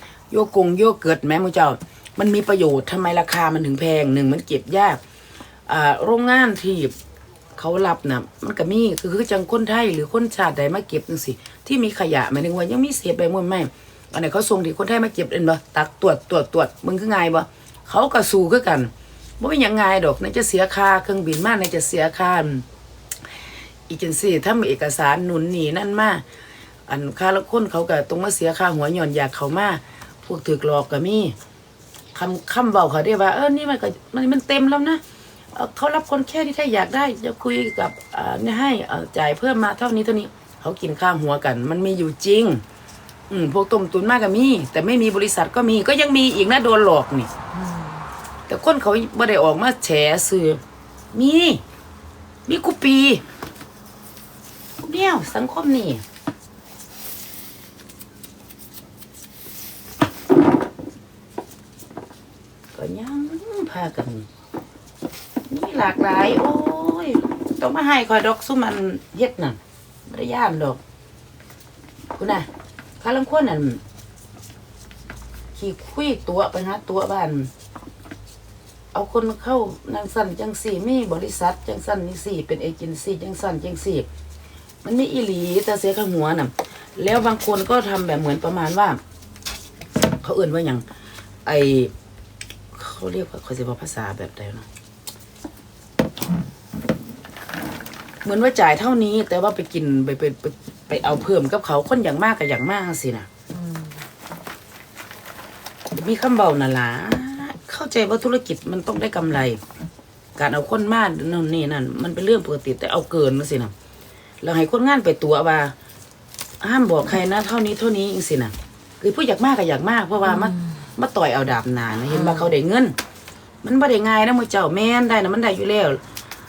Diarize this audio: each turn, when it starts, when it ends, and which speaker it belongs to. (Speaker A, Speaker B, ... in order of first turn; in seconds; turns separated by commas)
Speaker A: 0.3-5.0, Speaker A: 5.7-6.9, Speaker A: 7.6-22.6, Speaker A: 23.9-26.2, Speaker A: 26.9-31.4, Speaker A: 32.1-35.0, Speaker A: 35.5-42.6, Speaker A: 43.3-47.3, Speaker B: 47.5-48.1, Speaker A: 48.5-50.6, Speaker A: 51.1-51.6, Speaker A: 52.5-53.2, Speaker A: 54.8-56.0, Speaker A: 62.7-64.3, Speaker A: 65.5-70.8, Speaker A: 72.2-72.5, Speaker A: 73.0-73.8, Speaker A: 75.6-77.5, Speaker A: 78.9-84.1, Speaker A: 84.8-89.0, Speaker A: 90.2-90.8, Speaker A: 91.5-91.9, Speaker A: 92.7-94.7, Speaker A: 98.2-103.3, Speaker B: 103.5-104.0, Speaker A: 105.9-109.6, Speaker A: 110.4-113.7, Speaker A: 114.4-115.7, Speaker A: 116.6-123.0, Speaker B: 120.3-120.8, Speaker B: 122.1-122.5, Speaker A: 123.6-126.0